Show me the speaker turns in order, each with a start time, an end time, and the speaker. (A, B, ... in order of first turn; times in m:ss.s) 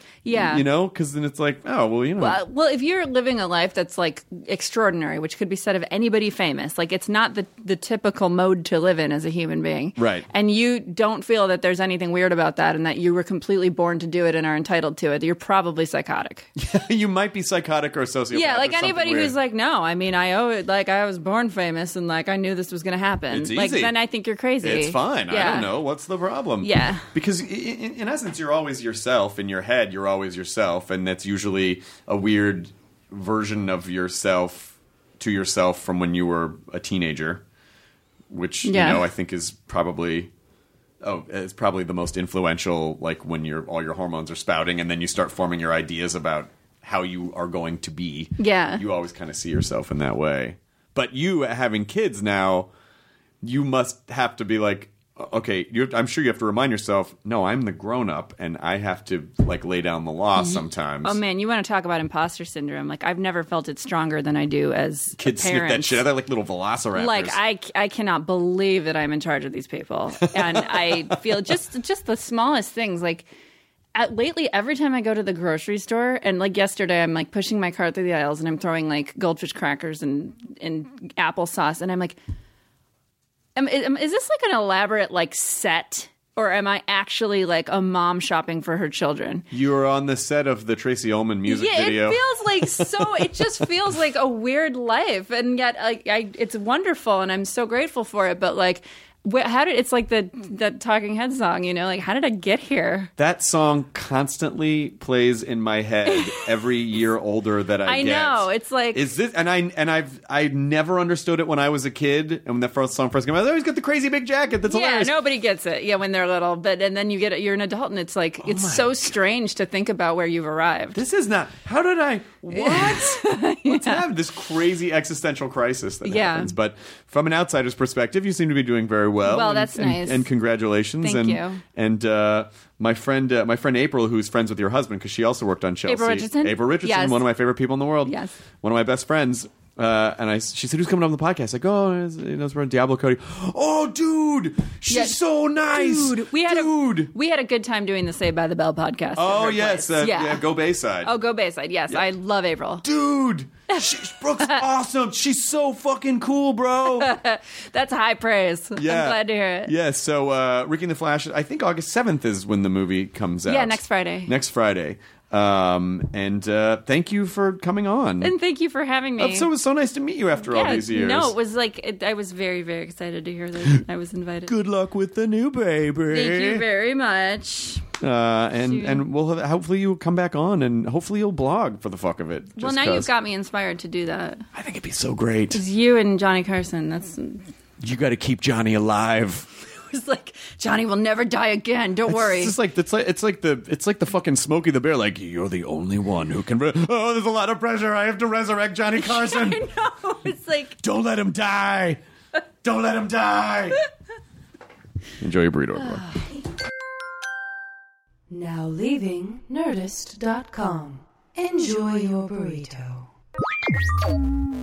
0:00.2-0:00.6 A
0:00.3-0:02.4 B
0:02.2-0:16.5 A
0:10.0-0:10.3 B
0:16.6-0:19.4 B
0:18.3-0:25.7 A
0:23.3-0:23.9 B
0:24.6-0:37.4 B
0:26.6-0:27.1 A
0:38.3-0:40.3 B
0:38.6-0:39.0 A
0:41.0-0:52.7 B
0:48.4-0:48.8 A
0:53.4-1:01.2 B
1:00.4-1:06.1 A
1:05.2-1:07.4 B
1:07.0-1:13.3 A
1:14.0-1:22.2 A
1:23.6-1:29.5 A
1:29.5-1:32.2 B
1:31.5-1:43.1 A
1:32.8-1:33.2 B
1:43.2-1:55.2 B
1:46.1-1:46.6 A
1:47.9-1:49.1 A
1:54.7-2:01.0 A
1:58.4-1:59.1 B
2:00.9-2:27.1 B
2:02.5-2:04.0 A
2:06.0-2:06.5 A
2:09.2-2:10.3 A
2:11.0-2:11.6 A
2:15.9-2:17.2 A
2:18.1-2:18.4 A
2:24.9-2:25.2 A
2:25.7-2:30.5 A
2:29.2-2:31.1 B
2:31.0-2:32.8 A
2:32.8-2:37.2 B
2:33.7-2:34.6 A
2:36.9-2:39.7 A
2:38.8-2:48.3 B
2:43.5-2:44.3 A
2:48.2-2:49.5 A
2:49.2-2:51.3 B
2:50.5-2:54.5 A
2:54.5-2:56.6 B
2:56.1-2:57.9 A
2:58.0-3:03.1 B
2:58.7-2:59.1 A
3:02.6-3:04.4 A
3:04.6-3:05.6 B
3:05.5-3:07.5 A
3:07.8-3:09.5 B
3:09.6-3:12.5 A
3:12.1-3:19.6 B
3:19.0-3:20.8 A
3:20.8-3:22.0 B
3:22.6-3:23.8 B
3:25.2-3:26.0 B
3:25.8-3:26.3 A
3:28.3-3:33.1 C